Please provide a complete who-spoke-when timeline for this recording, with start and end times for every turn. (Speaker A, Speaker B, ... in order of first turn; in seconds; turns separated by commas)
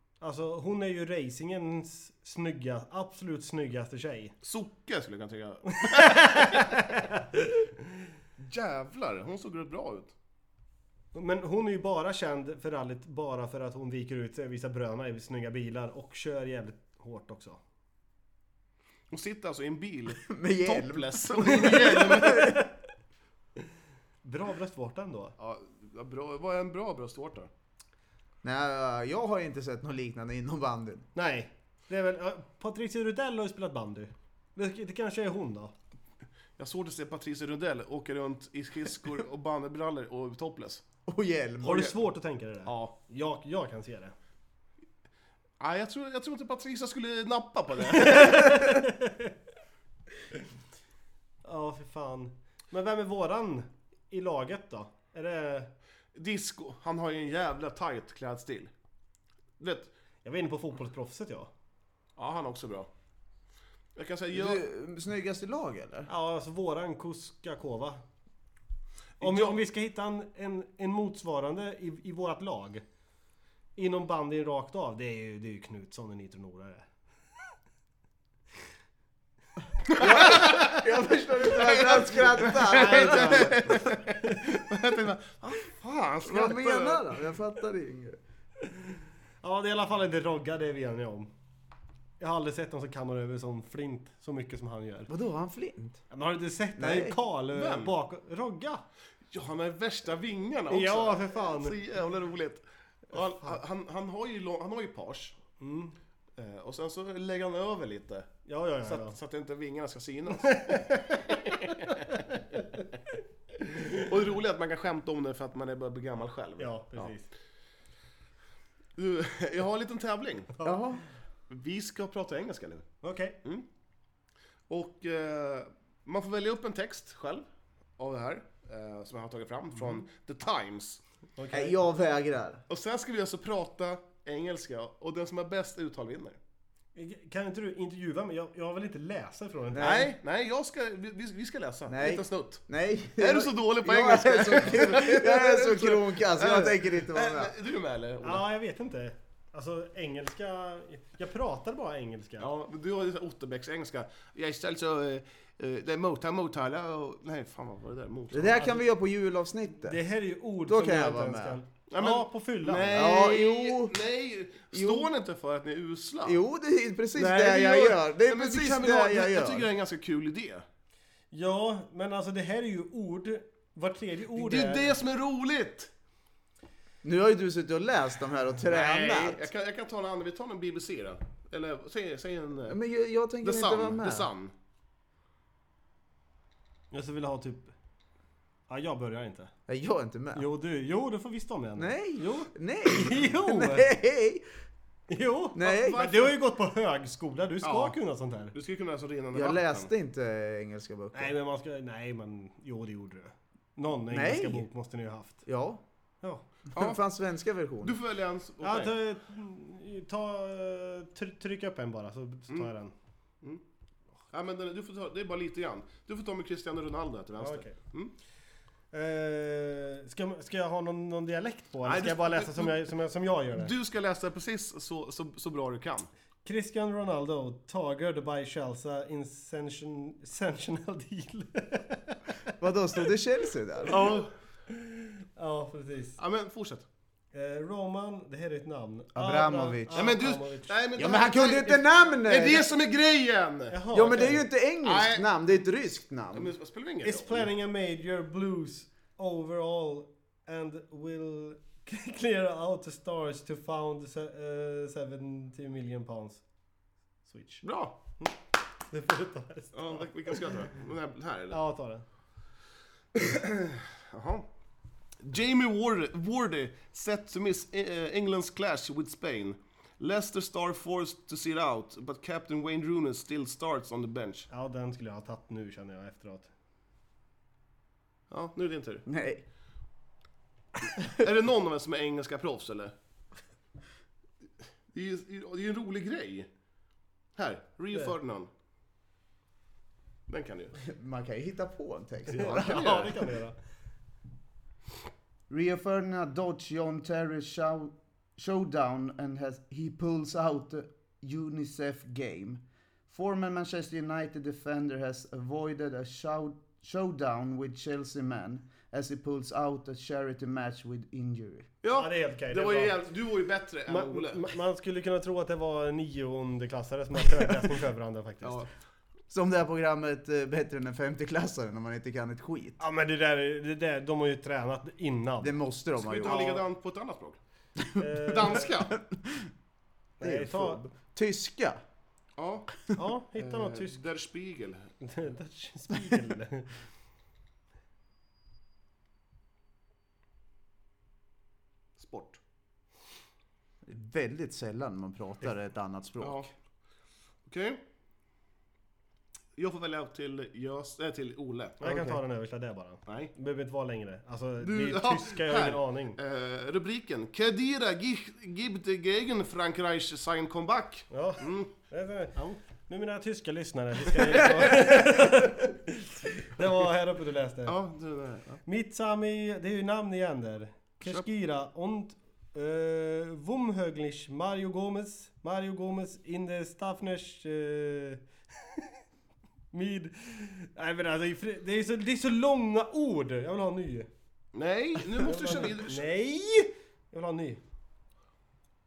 Speaker A: 0.2-4.3, Speaker B: 4.4-6.8, Speaker A: 5.7-7.6, Speaker B: 8.4-10.1, Speaker A: 11.1-17.6, Speaker B: 19.1-22.6, Speaker C: 20.3-22.6, Speaker A: 24.2-25.4, Speaker B: 25.4-27.5, Speaker C: 28.4-31.1, Speaker A: 31.1-35.7, Speaker B: 36.6-40.8, Speaker C: 41.1-42.0, Speaker A: 41.6-44.1, Speaker B: 42.7-43.0, Speaker B: 45.6-48.6, Speaker A: 47.9-49.3, Speaker A: 51.4-55.7, Speaker B: 56.1-58.7, Speaker B: 59.6-59.9, Speaker A: 60.2-61.5, Speaker B: 62.2-62.9, Speaker B: 64.0-64.7, Speaker C: 64.3-66.1, Speaker A: 66.1-68.0, Speaker B: 69.2-69.6, Speaker A: 69.2-72.8, Speaker A: 73.8-76.9, Speaker B: 79.9-80.7, Speaker C: 80.0-84.0, Speaker B: 81.5-87.1, Speaker A: 82.7-84.4, Speaker C: 86.2-88.2, Speaker A: 89.4-91.3, Speaker A: 92.2-95.1, Speaker C: 95.1-96.0, Speaker A: 96.1-98.8, Speaker C: 96.8-97.2, Speaker B: 97.5-98.0, Speaker B: 99.3-105.4, Speaker A: 100.7-101.8, Speaker A: 105.6-106.0, Speaker B: 106.4-108.3, Speaker A: 108.5-109.2, Speaker B: 108.8-112.2, Speaker A: 110.4-112.2, Speaker B: 114.0-117.1, Speaker A: 116.6-117.3, Speaker B: 119.0-120.6, Speaker C: 120.6-121.0, Speaker B: 121.5-123.7, Speaker A: 123.0-123.4, Speaker B: 124.7-127.5, Speaker B: 128.0-131.0, Speaker A: 131.4-131.8, Speaker C: 131.5-132.6, Speaker B: 132.7-136.4, Speaker A: 136.9-140.1, Speaker C: 139.7-140.1, Speaker B: 139.8-142.7, Speaker C: 141.9-147.5, Speaker B: 143.2-148.4, Speaker A: 148.2-152.5, Speaker B: 152.4-158.8, Speaker C: 158.3-160.0, Speaker A: 159.8-163.2, Speaker C: 160.6-161.6, Speaker B: 161.9-166.4, Speaker C: 162.9-164.0, Speaker C: 164.7-165.1, Speaker C: 166.2-169.7, Speaker A: 167.2-167.8, Speaker B: 167.3-170.7, Speaker A: 171.3-175.0, Speaker B: 174.3-175.9, Speaker C: 177.0-179.5, Speaker B: 178.7-182.8, Speaker C: 182.7-184.3, Speaker B: 183.4-184.5, Speaker A: 186.9-187.7, Speaker A: 188.7-189.5, Speaker C: 189.7-190.5, Speaker A: 190.3-193.9, Speaker C: 191.8-194.4, Speaker A: 195.1-198.6, Speaker C: 195.5-196.1, Speaker B: 195.6-196.4, Speaker B: 197.6-198.0, Speaker B: 198.5-199.9, Speaker C: 199.3-201.3, Speaker A: 201.1-205.4, Speaker C: 204.1-204.7, Speaker C: 205.4-205.8, Speaker C: 206.7-208.0, Speaker B: 206.8-207.0, Speaker B: 207.8-208.9, Speaker A: 208.6-212.9, Speaker B: 214.3-218.1, Speaker A: 217.4-217.8, Speaker A: 218.9-223.7, Speaker B: 221.8-222.9, Speaker B: 223.5-226.1, Speaker A: 226.4-232.2, Speaker C: 232.6-234.0, Speaker B: 233.9-234.3, Speaker A: 234.7-236.2, Speaker B: 236.2-236.9, Speaker A: 237.3-240.8, Speaker C: 239.1-240.1, Speaker B: 239.9-244.0, Speaker C: 241.0-242.7, Speaker A: 243.7-244.5, Speaker C: 243.9-246.5, Speaker B: 244.8-245.3, Speaker B: 246.3-247.5, Speaker A: 247.0-256.4, Speaker A: 257.2-257.7, Speaker B: 257.6-258.0, Speaker A: 258.9-260.5, Speaker B: 259.7-261.6, Speaker A: 261.5-262.1, Speaker B: 263.2-264.5, Speaker B: 265.2-274.5, Speaker A: 274.5-276.5, Speaker B: 278.3-279.1, Speaker C: 279.1-279.4, Speaker B: 281.1-282.9, Speaker B: 284.9-286.5, Speaker B: 287.4-288.5, Speaker B: 290.3-290.8, Speaker C: 290.8-293.1, Speaker A: 292.3-293.6, Speaker B: 292.4-293.1, Speaker C: 295.5-311.7, Speaker B: 311.8-314.5, Speaker A: 311.9-313.1, Speaker A: 313.9-318.7, Speaker B: 318.4-318.7, Speaker C: 319.3-322.8, Speaker A: 322.8-325.6, Speaker C: 325.4-326.5, Speaker B: 326.0-327.4, Speaker A: 326.2-326.6, Speaker C: 327.9-329.5, Speaker A: 328.0-328.7, Speaker B: 328.3-329.0, Speaker A: 330.2-330.8, Speaker C: 330.2-331.8, Speaker B: 332.4-334.9, Speaker A: 332.9-334.0, Speaker A: 335.0-336.7, Speaker B: 342.0-342.4, Speaker C: 343.9-346.5, Speaker B: 346.2-346.5, Speaker B: 347.5-347.8, Speaker B: 349.6-352.2, Speaker A: 351.8-356.2, Speaker B: 353.1-353.3, Speaker B: 354.6-361.7, Speaker A: 361.1-367.8, Speaker B: 367.7-368.6, Speaker A: 368.6-378.2, Speaker B: 371.0-371.3, Speaker A: 379.7-384.1, Speaker B: 384.5-386.0, Speaker A: 385.1-387.6